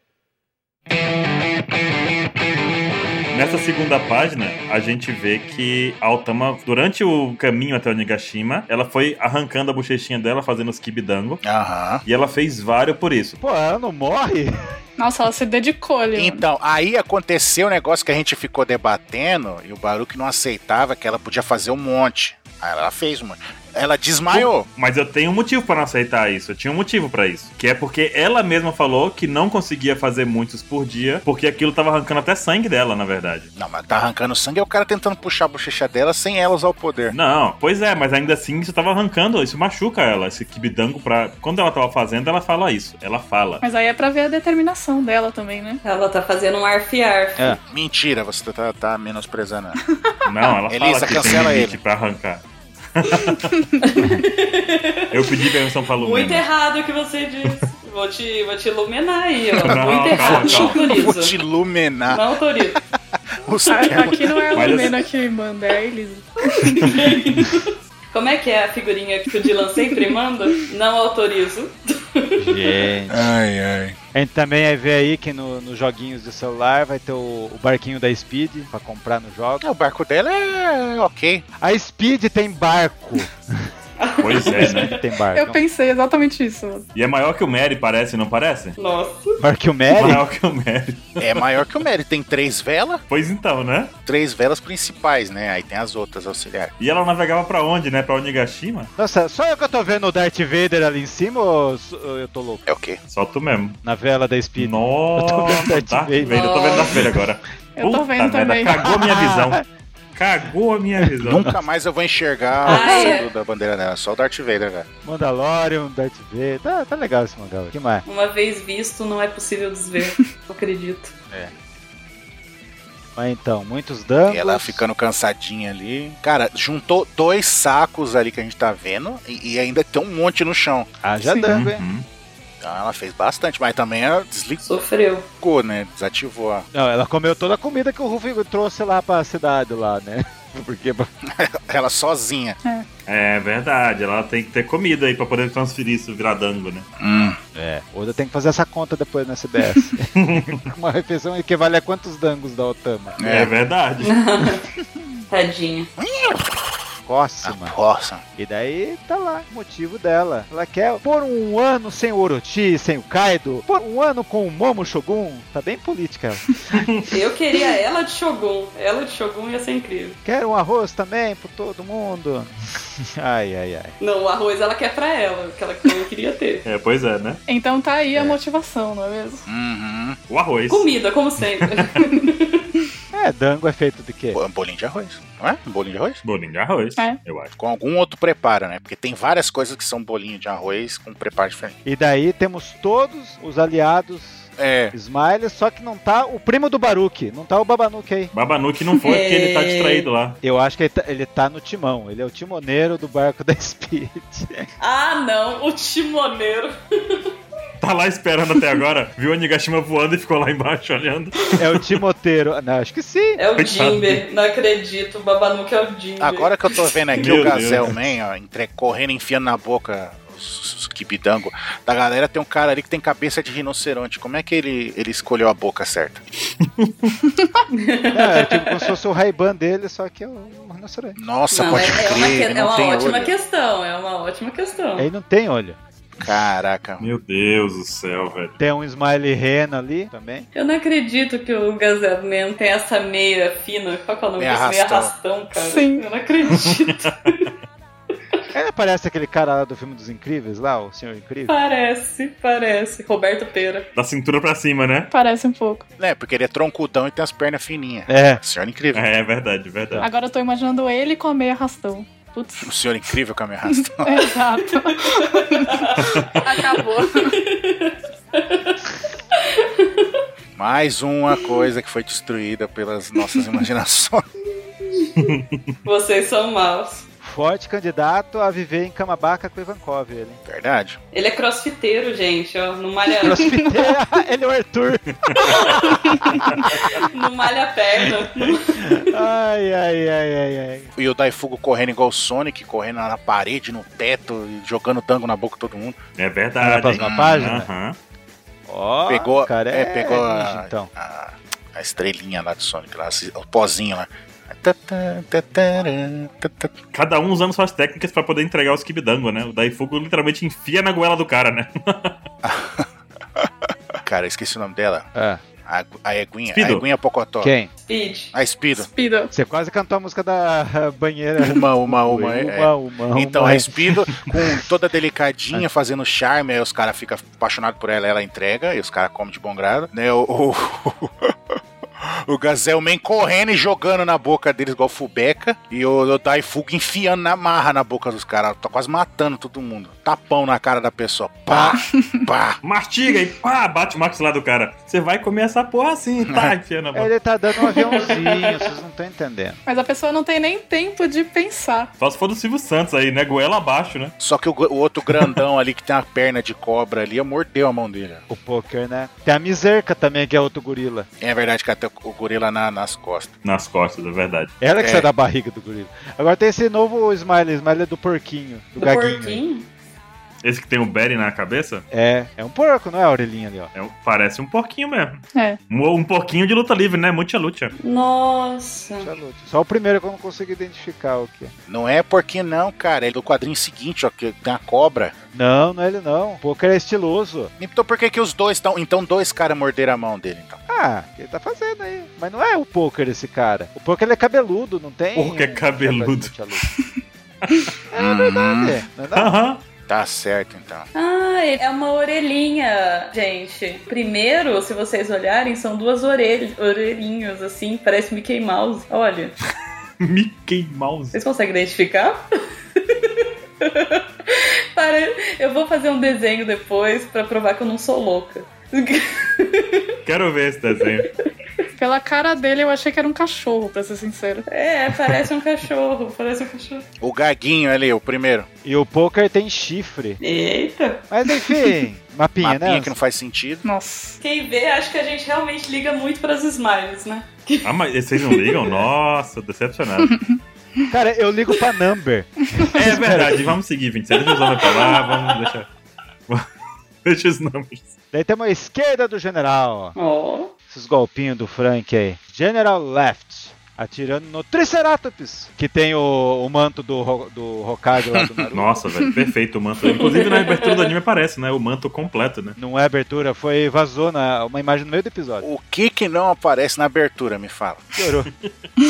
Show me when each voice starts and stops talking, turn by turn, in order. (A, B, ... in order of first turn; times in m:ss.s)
0:03.3-0:11.4 A
0:11.4-0:12.0 B
0:12.0-0:13.4 A
0:13.4-0:14.6 C
0:15.0-0:16.4 D
0:16.2-0:24.7 B
0:24.3-0:33.5 A
0:33.6-0:37.2 B
0:37.1-0:43.6 A
0:43.6-0:45.8 D
0:45.8-0:47.6 E
0:47.7-0:49.8 B
0:50.3-0:52.4 A
0:50.7-0:51.8 B
0:53.0-0:53.6 A
0:53.8-1:01.4 E
0:55.1-0:56.4 A
0:59.6-1:00.9 A
1:00.2-1:01.0 D
1:01.0-1:02.2 B
1:02.1-1:02.8 E
1:03.4-1:04.8 B
1:03.7-1:07.0 D
1:04.5-1:05.0 A
1:06.4-1:12.7 E
1:12.4-1:13.3 C
1:13.1-1:14.0 B
1:14.1-1:19.7 C
1:19.6-1:21.4 B
1:21.6-1:23.7 C
1:24.0-1:24.9 E
1:24.2-1:24.9 A
1:24.5-1:25.6 C
1:25.3-1:26.8 D
1:27.0-1:28.8 A
1:28.8-1:29.4 E
1:29.4-1:30.3 C
1:29.9-1:31.4 A
1:31.2-1:33.0 B
1:33.1-1:33.9 A
1:34.0-1:36.7 B
1:36.8-1:38.9 A
1:39.0-1:42.7 C
1:42.7-1:43.0 B
1:43.1-1:43.8 A
1:43.8-1:46.6 C
1:44.6-1:49.6 A
1:46.3-1:47.0 E
1:47.8-1:48.9 D
1:48.8-1:49.6 C
1:50.1-1:51.5 A
1:51.0-1:51.6 C
1:51.2-1:54.9 B
1:52.7-1:53.3 E
1:52.7-1:53.1 C
1:55.0-1:58.0 C
1:58.0-2:01.1 E
2:03.2-2:04.8 C
2:04.3-2:10.9 B
2:11.0-2:11.8 C
2:11.2-2:11.5 D
2:11.5-2:12.1 A
2:12.6-2:14.6 B
2:14.6-2:15.3 E
2:15.4-2:16.7 B
2:16.7-2:21.1 C
2:21.3-2:22.6 B
2:23.1-2:26.9 A
2:27.0-2:27.4 B
2:27.6-2:33.2 C
2:30.2-2:30.7 A
2:33.2-2:33.5 B
2:33.2-2:34.1 A
2:34.0-2:34.6 E
2:35.3-2:35.9 E
2:36.0-2:36.6 B
2:37.1-2:37.8 C
2:37.4-2:38.2 B
2:38.4-2:46.5 C
2:46.7-2:47.1 A
2:47.1-2:50.2 E
2:50.2-2:53.9 C
2:54.0-2:56.6 E
2:56.6-2:57.4 A
2:57.5-2:59.5 D
2:59.5-3:00.2 B
3:00.3-3:00.9 A
3:00.7-3:02.7 E
3:01.6-3:02.0 A
3:03.1-3:04.4 C
3:04.3-3:06.2 B
3:06.2-3:07.5 A
3:07.6-3:11.8 B
3:11.8-3:18.3 C
3:14.6-3:15.0 B
3:18.3-3:20.4 A
3:19.0-3:20.1 E
3:20.4-3:24.7 C
3:24.8-3:27.3 E
3:27.8-3:31.9 A
3:31.6-3:33.4 C
3:33.4-3:36.5 E
3:33.6-3:34.2 A
3:36.2-3:46.2 B
3:37.2-3:38.1 A
3:46.6-3:47.2 A
3:47.7-3:48.9 E
3:48.1-3:51.2 C
3:51.2-3:53.4 B
3:51.5-3:55.1 E
3:55.0-3:55.8 C
3:56.2-3:57.1 B
3:57.0-3:58.6 A
3:58.6-4:00.5 C
4:00.5-4:07.5 E
4:04.4-4:05.1 B
4:05.6-4:06.1 D
4:06.6-4:07.1 A
4:08.5-4:11.5 C
4:11.5-4:13.9 E
4:14.0-4:15.1 A
4:15.1-4:15.8 D
4:16.0-4:19.0 B
4:18.1-4:18.4 C
4:18.9-4:20.0 A
4:20.0-4:22.7 D
4:22.6-4:24.3 B
4:24.0-4:27.4 D
4:24.8-4:26.2 E
4:26.0-4:26.4 A
4:27.2-4:28.8 E
4:29.4-4:30.2 E
4:30.6-4:34.2 B
4:34.8-4:35.3 E
4:35.2-4:35.7 A
4:35.8-4:37.1 E
4:37.2-4:40.4 C
4:40.5-4:41.0 B
4:41.1-4:43.6 E
4:43.2-4:46.5 C
4:43.5-4:43.9 D
4:45.4-4:49.1 E
4:48.8-4:50.9 C
4:51.0-4:56.0 B
4:56.2-4:58.0 A
4:56.6-4:57.7 C
4:57.0-4:57.4 B
4:58.7-5:00.9 C
4:59.1-5:06.7 B
5:06.9-5:12.2 A
5:12.4-5:13.5 B
5:14.0-5:15.1 B
5:15.2-5:15.4 C
5:15.6-5:17.5 B
5:16.5-5:16.8 A
5:17.4-5:17.7 C
5:17.8-5:18.3 E
5:18.3-5:18.9 B
5:18.8-5:19.3 D
5:19.3-5:24.4 C
5:21.4-5:42.6 B
5:41.5-5:41.8 C
5:42.0-5:42.2 D
5:42.6-5:47.1 A
5:46.3-5:46.5 B
5:46.9-5:49.6 C
5:47.8-5:48.6 E
5:49.7-5:51.9 D
5:52.0-5:54.1 A
5:54.2-5:58.2 B
5:58.3-6:01.1 C
6:01.2-6:03.3 B
6:03.4-6:04.5 A
6:04.6-6:09.4 C
6:04.8-6:05.1 B
6:08.8-6:09.7 E
6:10.4-6:11.8 A
6:11.9-6:13.7 C
6:13.7-6:17.7 A
6:15.3-6:15.6 D
6:17.8-6:19.1 E
6:19.0-6:21.5 C
6:21.7-6:25.1 B
6:25.3-6:27.5 C
6:27.6-6:30.6 B
6:30.7-6:36.7 C
6:35.2-6:36.3 A
6:37.4-6:37.7 A
6:37.9-6:39.3 C
6:37.9-6:38.8 B
6:39.1-6:39.6 A
6:39.9-6:40.9 B
6:40.9-6:49.4 E
6:50.0-6:51.2 A
6:51.1-6:52.2 E
6:52.8-7:00.0 E
7:00.0-7:01.1 A
7:01.8-7:04.5 D
7:04.5-7:06.8 E
7:07.0-7:08.5 B
7:08.6-7:10.2 C
7:10.2-7:11.0 E
7:11.1-7:13.0 C
7:12.4-7:13.6 B
7:13.6-7:14.2 D
7:14.2-7:17.7 E
7:17.6-7:20.2 A
7:18.3-7:18.6 E
7:20.9-7:23.5 C
7:22.8-7:25.7 A
7:24.6-7:25.3 E
7:27.0-7:27.9 A
7:28.1-7:30.0 C
7:30.0-7:30.5 E
7:30.7-7:38.8 C
7:38.1-7:38.5 B
7:38.5-7:42.6 A
7:39.9-7:40.9 E
7:42.6-7:45.5 C
7:45.4-7:47.9 B
7:48.0-7:48.3 C